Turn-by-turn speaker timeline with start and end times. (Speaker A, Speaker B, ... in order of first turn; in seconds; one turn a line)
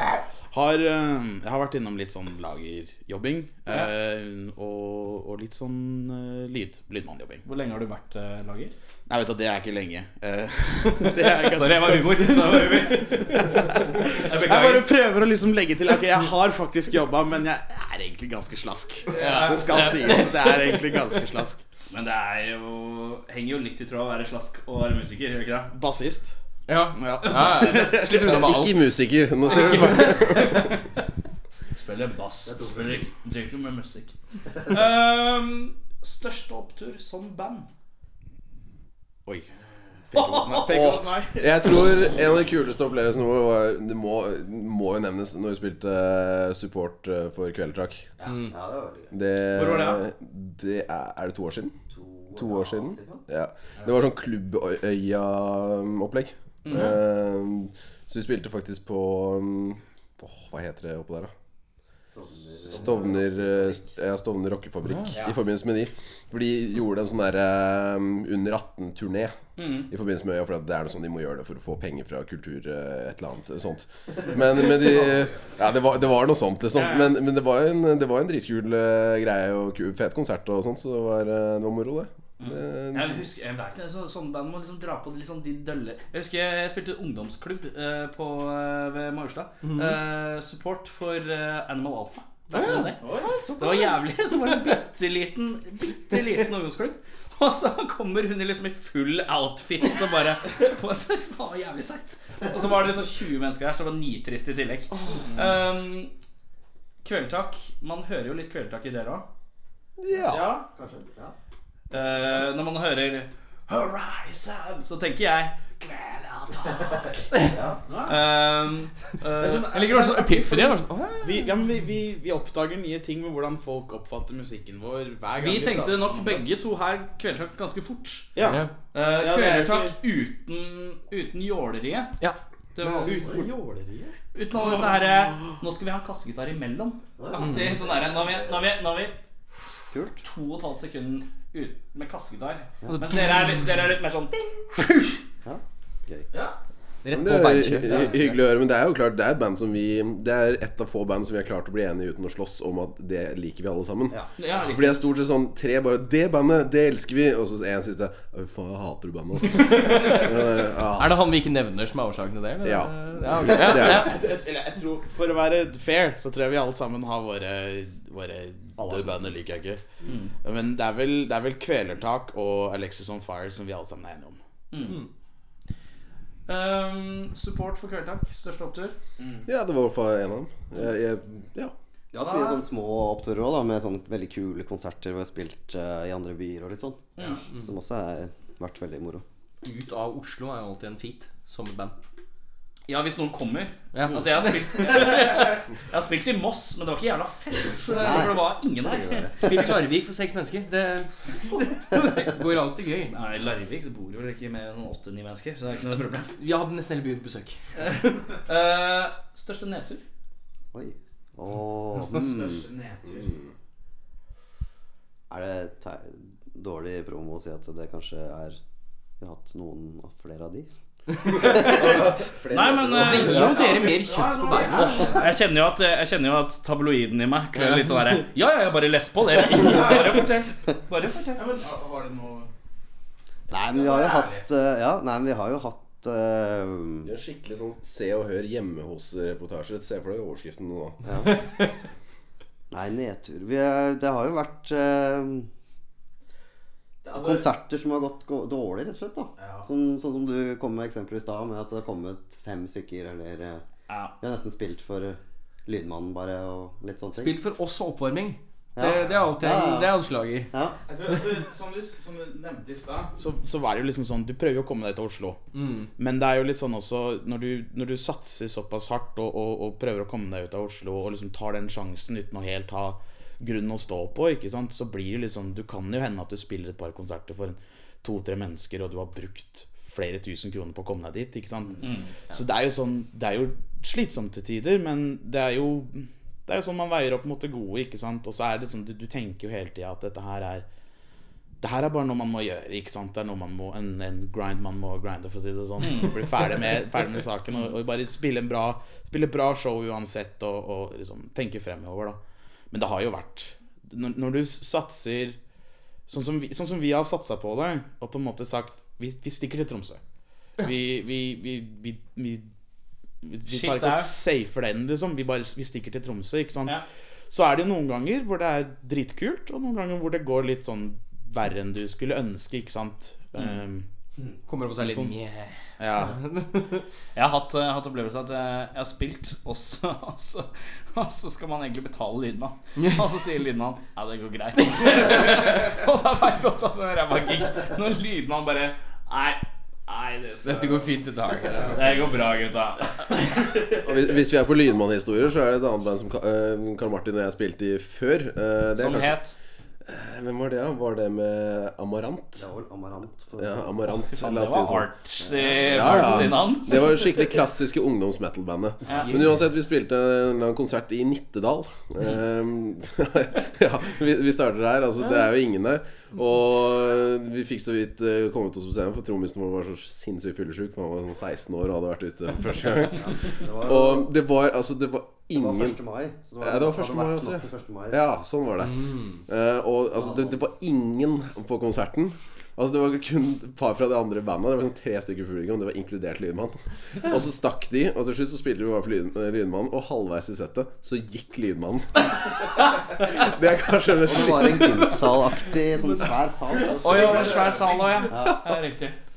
Speaker A: 0.5-7.4
Speaker B: 7.4-8.7
Speaker A: 9.1-21.6
Speaker B: 11.0-14.9
Speaker B: 19.1-20.3
Speaker C: 19.4-19.7
Speaker B: 21.9-25.7
Speaker A: 25.7-26.3
Speaker C: 26.7-28.9
Speaker A: 26.9-28.3
Speaker B: 27.2-28.2
Speaker D: 28.2-30.8
Speaker C: 29.5-30.4
Speaker B: 29.5-30.9
Speaker B: 31.8-34.1
Speaker E: 32.5-32.8
Speaker B: 34.6-37.7
Speaker A: 40.1-41.7
Speaker B: 40.1-40.9
Speaker D: 40.7-48.1
Speaker A: 48.2-48.5
Speaker E: 48.5-49.1
Speaker D: 49.1-51.7
Speaker B: 49.5-50.0
Speaker E: 51.9-53.2
Speaker D: 52.3-61.3
Speaker B: 56.6-56.9
Speaker E: 62.1-63.9
Speaker D: 62.7-83.2
Speaker C: 64.8-65.1
Speaker A: 65.1-65.4
Speaker B: 69.6-69.9
Speaker B: 76.7-77.1
Speaker B: 82.4-93.0
Speaker C: 89.6-90.0
Speaker C: 92.5-94.5
Speaker A: 93.0-93.3
Speaker B: 93.6-106.1
Speaker C: 104.9-105.2
Speaker B: 107.0-109.3
Speaker D: 110.0-110.4
Speaker A: 110.3-110.7
Speaker E: 110.7-111.3
Speaker B: 111.9-119.7
Speaker E: 117.3-117.8
Speaker A: 117.9-118.2
Speaker A: 119.4-126.4
Speaker C: 119.7-121.5
Speaker B: 125.4-128.4
Speaker A: 128.3-129.9
Speaker C: 128.4-128.7
Speaker B: 128.9-132.1
Speaker B: 132.7-133.2
Speaker A: 132.8-134.1
Speaker B: 134.3-139.2
Speaker E: 137.2-138.7
Speaker C: 137.4-137.7
Speaker E: 139.9-140.2
Speaker B: 140.2-144.3
Speaker E: 145.4-146.3
Speaker C: 147.0-148.4
Speaker D: 147.1-161.3
Speaker E: 147.6-148.1
Speaker B: 154.4-155.0
Speaker C: 160.9-164.2
Speaker D: 162.6-164.1
Speaker A: 163.5-169.8
Speaker B: 168.8-169.1
Speaker B: 170.1-170.3
Speaker A: 170.4-174.4
Speaker B: 174.7-175.0
Speaker B: 176.5-178.9
Speaker A: 179.2-179.5
Speaker D: 179.4-181.7
Speaker E: 182.1-189.2
Speaker B: 182.2-182.6
Speaker C: 189.6-191.9
Speaker B: 192.9-199.3
Speaker C: 193.9-194.6
Speaker E: 197.9-199.6
Speaker C: 199.4-203.2
Speaker B: 203.1-206.3
Speaker C: 206.4-207.6
Speaker B: 207.8-210.0
Speaker E: 210.7-212.6
Speaker A: 211.9-213.4
Speaker E: 215.3-218.6
Speaker E: 219.2-220.7
Speaker D: 221.3-223.4
Speaker E: 221.3-222.1
Speaker B: 221.4-221.9
Speaker B: 222.5-223.5
Speaker C: 223.0-225.1
Speaker E: 223.2-223.6
Speaker A: 223.2-225.2
Speaker E: 224.7-225.1
Speaker B: 225.0-231.4
Speaker C: 227.6-228.2
Speaker A: 231.3-232.5
Speaker E: 233.5-237.1
Speaker A: 233.5-234.4
Speaker D: 237.1-241.0
Speaker E: 241.0-241.4
Speaker C: 241.3-241.6
Speaker E: 242.7-245.5
Speaker A: 247.0-247.5
Speaker E: 247.1-253.6
Speaker A: 249.4-249.7
Speaker B: 253.9-254.1
Speaker E: 254.2-257.4
Speaker C: 257.1-260.5
Speaker E: 258.7-260.0
Speaker E: 260.5-260.8
Speaker A: 260.9-265.4
Speaker C: 265.5-265.9
Speaker A: 266.0-290.6
Speaker B: 281.8-282.1
Speaker A: 291.6-302.2
Speaker B: 295.8-296.3
Speaker A: 302.7-305.4
Speaker A: 306.1-310.0
Speaker A: 310.6-312.5
Speaker A: 313.2-316.8
Speaker B: 313.5-314.1
Speaker A: 317.3-323.9
Speaker C: 324.4-326.8
Speaker A: 324.8-325.1
Speaker A: 325.8-326.1
Speaker B: 327.1-340.9
Speaker C: 332.8-333.0
Speaker C: 334.6-335.4
Speaker C: 340.4-342.0
Speaker B: 341.7-343.3
Speaker D: 343.7-349.2
Speaker B: 348.8-349.4
Speaker D: 349.9-352.4
Speaker E: 352.4-353.7
Speaker D: 353.4-354.9
Speaker B: 354.0-356.8
Speaker D: 355.6-375.8
Speaker B: 358.9-359.1
Speaker C: 358.9-359.4
Speaker E: 373.1-374.1
Speaker E: 375.3-378.0
Speaker D: 376.4-395.0
Speaker E: 379.9-380.4
Speaker E: 394.0-397.4
Speaker A: 396.5-398.1
Speaker B: 396.8-399.0
Speaker E: 398.1-398.5